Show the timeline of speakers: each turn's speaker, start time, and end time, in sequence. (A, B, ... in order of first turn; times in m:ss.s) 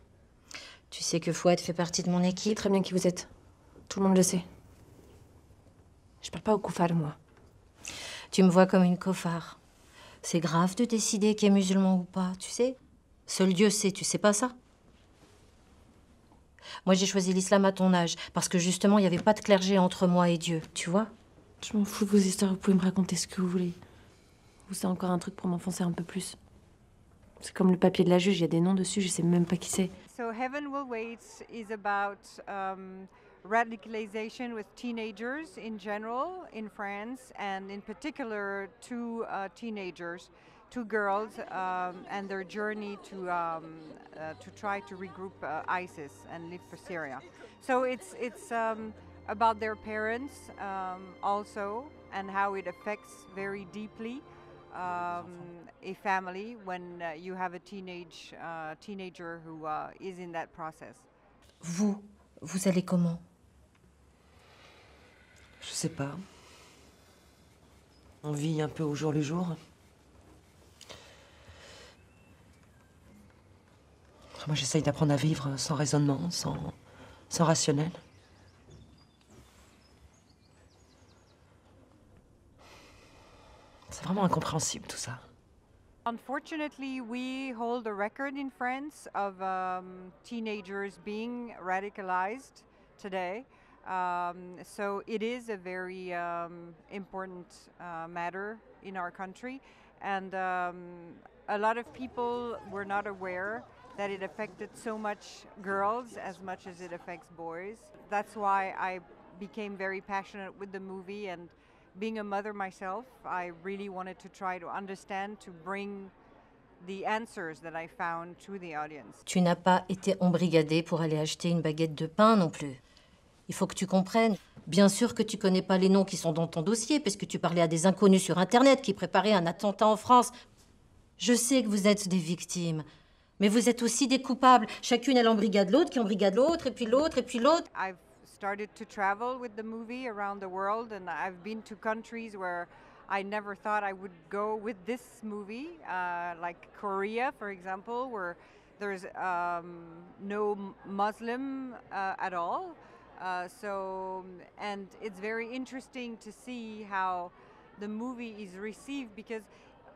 0:00.9-0:02.6 A
0:02.5-0:03.3 B
0:03.9-0:04.4 B
0:06.2-0:07.2 B
0:08.3-0:09.6 A
0:10.2-0:14.6 A
0:16.8-0:21.1 A
0:21.6-0:23.8 B
0:24.7-0:26.4 B
0:27.4-0:29.9 B
0:30.1-1:01.1 C
1:01.6-1:03.2 A
1:05.6-1:06.2 D
1:08.2-1:09.6 D
1:14.4-1:16.8 D
1:17.3-1:18.0 D
1:23.9-1:25.2 D
1:26.1-1:56.1 C
1:56.8-1:59.2 C
1:59.3-2:02.8 A
2:03.5-2:10.3 A
2:11.2-2:12.8 A
2:13.4-2:17.7 A
2:17.7-2:39.5 C